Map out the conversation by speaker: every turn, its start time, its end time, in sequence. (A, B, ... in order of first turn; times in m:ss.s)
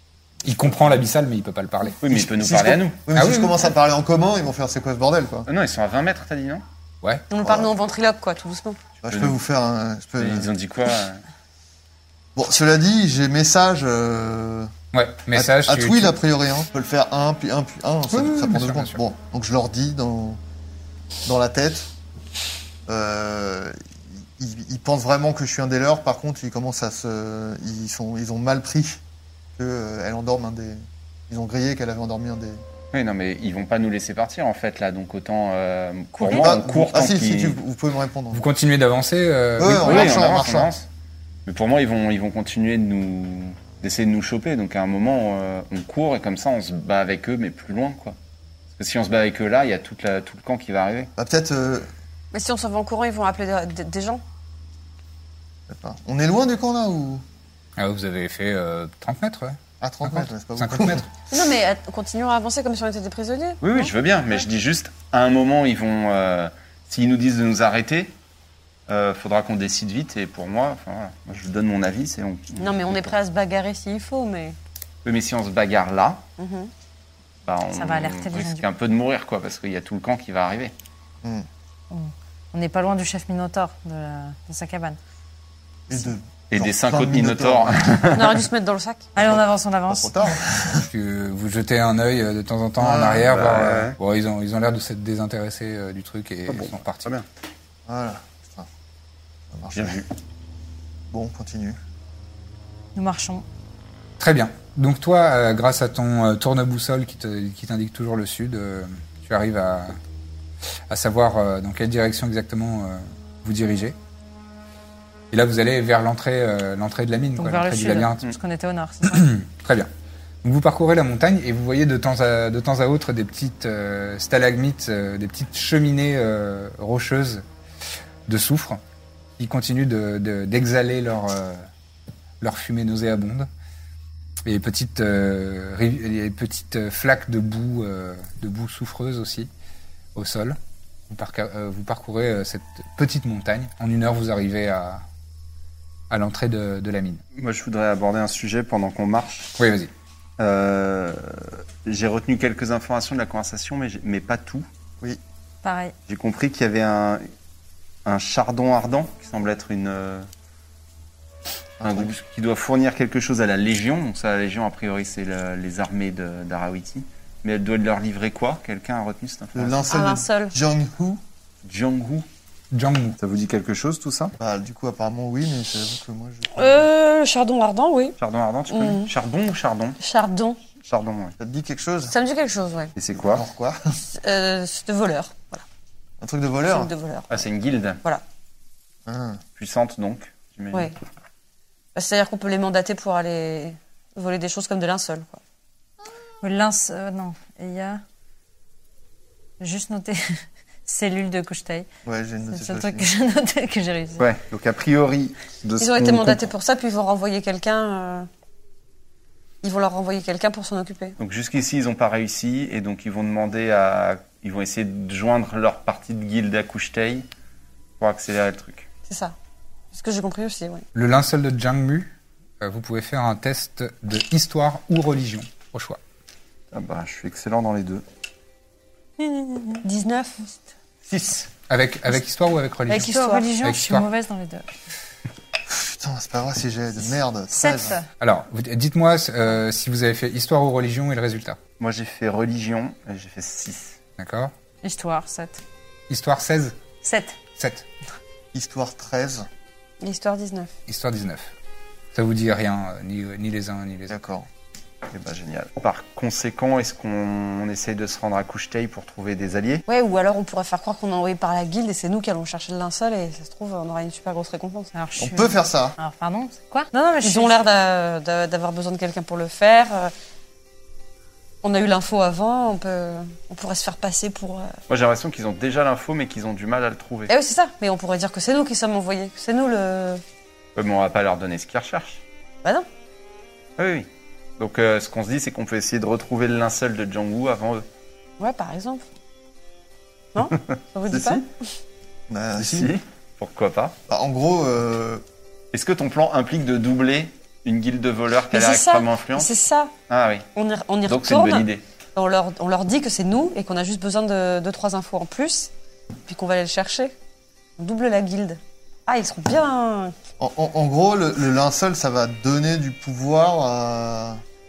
0:00.4-0:02.0 A
0:02.0-0:03.0 B
0:02.1-0:05.5 C
0:03.1-0:03.6 A
0:05.5-0:06.6 B
0:07.3-0:08.8 D
0:07.4-0:07.7 C
0:09.0-0:10.5 C
0:09.1-0:09.4 B
0:10.2-0:11.2 B
0:12.3-0:14.7 C
0:14.9-0:16.1 A
0:15.3-0:20.4 C
0:18.1-0:19.0 A
0:21.2-0:21.9 C
0:22.9-0:29.0 C
0:29.6-0:32.6 C
0:32.9-0:37.6 B
0:36.3-0:38.5 C
0:38.3-0:40.2 A
0:39.6-0:40.7 C
0:39.8-0:40.9 B
0:41.4-0:48.2 B
0:48.7-0:51.1 B
0:51.2-0:51.9 C
0:52.3-0:54.2 D
0:55.7-0:57.2 C
0:57.8-1:01.1 A
0:59.8-1:01.0 C
1:01.3-1:03.9 D
1:03.6-1:08.1 B
1:08.9-1:13.1 B
1:12.6-1:14.6 D
1:15.0-1:16.2 B
1:16.4-1:16.7 D
1:17.4-1:20.7 B
1:17.7-1:18.6 E
1:21.2-1:21.5 C
1:21.9-1:25.0 E
1:25.9-1:28.2 C
1:26.5-1:28.4 B
1:28.1-1:29.1 D
1:29.1-1:30.2 E
1:29.2-1:30.9 C
1:30.8-1:37.1 A
1:32.8-1:33.3 C
1:33.2-1:34.0 B
1:36.5-1:37.2 B
1:37.9-1:38.7 C
1:39.5-1:40.0 C
1:39.7-1:40.1 B
1:41.1-1:41.8 C
1:42.9-1:43.4 E
1:44.2-1:50.0 A
1:50.9-1:54.0 A
1:55.3-1:58.3 A
1:57.4-1:59.3 E
1:59.0-1:59.9 A
2:00.4-2:07.4 A
2:08.3-2:08.8 A
2:09.4-2:11.6 A
2:12.4-2:13.5 A
2:14.4-2:19.5 A
2:20.1-2:20.6 A
2:21.1-2:25.0 A
2:26.1-2:27.2 A
2:27.4-2:29.5 B
2:29.6-2:29.9 A
2:30.4-2:34.6 B
2:35.6-2:35.9 E
2:36.1-2:37.3 B
2:38.0-2:40.3 B
2:41.8-2:42.2 C
2:41.8-2:49.9 B
2:49.5-2:51.2 C
2:49.9-2:50.5 D
2:51.6-2:52.2 B
2:52.7-2:53.2 A
2:53.2-2:54.3 B
2:54.4-2:56.9 C
2:56.5-2:58.2 D
2:58.2-3:00.0 B
2:58.7-2:59.1 D
3:00.0-3:00.6 D
3:00.8-3:01.4 B
3:01.4-3:02.1 C
3:02.1-3:02.9 D
3:03.0-3:03.4 B
3:03.2-3:03.8 C
3:04.1-3:05.6 D
3:06.2-3:06.9 C
3:06.6-3:07.5 D
3:07.3-3:08.0 B
3:09.0-3:09.4 C
3:09.6-3:10.9 B
3:11.9-3:15.4 D
3:16.4-3:18.0 E
3:19.6-3:21.9 E
3:22.0-3:23.1 C
3:22.5-3:24.3 E
3:24.2-3:26.5 B
3:25.8-3:28.3 D
3:29.6-3:31.2 D
3:31.2-3:37.3 B
3:38.0-3:38.9 B
3:39.1-3:39.3 D
3:39.9-3:40.8 D
3:40.9-3:46.0 A
3:46.7-3:48.0 B
3:49.2-3:49.8 E
3:49.8-3:50.6 D
3:51.1-3:51.4 B
3:51.7-3:54.1 A
3:52.9-3:54.7 E
3:52.9-3:53.5 D
3:55.7-3:58.0 C
3:57.5-3:58.0 E
3:58.2-4:01.6 A
4:01.8-4:04.0 B
4:04.2-4:04.5 A
4:04.8-4:05.6 E
4:06.1-4:06.7 A
4:07.0-4:07.4 E
4:07.5-4:07.8 A
4:08.5-4:09.5 C
4:10.0-4:10.7 D
4:10.9-4:11.5 A
4:12.1-4:14.2 A
4:14.1-4:14.5 C
4:15.1-4:19.8 B
4:19.9-4:24.9 D
4:24.9-4:27.6 E
4:25.2-4:26.0 C
4:27.2-4:30.1 D
4:31.6-4:34.7 D
4:34.9-4:37.3 B
4:37.3-4:40.2 D
4:40.7-4:42.2 B
4:43.8-4:44.1 B
4:44.6-4:47.8 B
4:48.4-4:49.0 D
4:50.3-4:51.7 D
4:50.7-4:51.3 B
4:51.1-4:51.4 C
4:52.3-4:52.9 C
4:52.6-4:53.9 B
4:54.1-4:55.2 C
4:55.7-4:59.6 B
4:58.5-4:59.9 D
5:00.1-5:00.5 B
5:00.6-5:05.7 D
5:01.0-5:01.8 B
5:06.3-5:07.1 D
5:07.8-5:10.1 D
5:10.4-5:14.4 C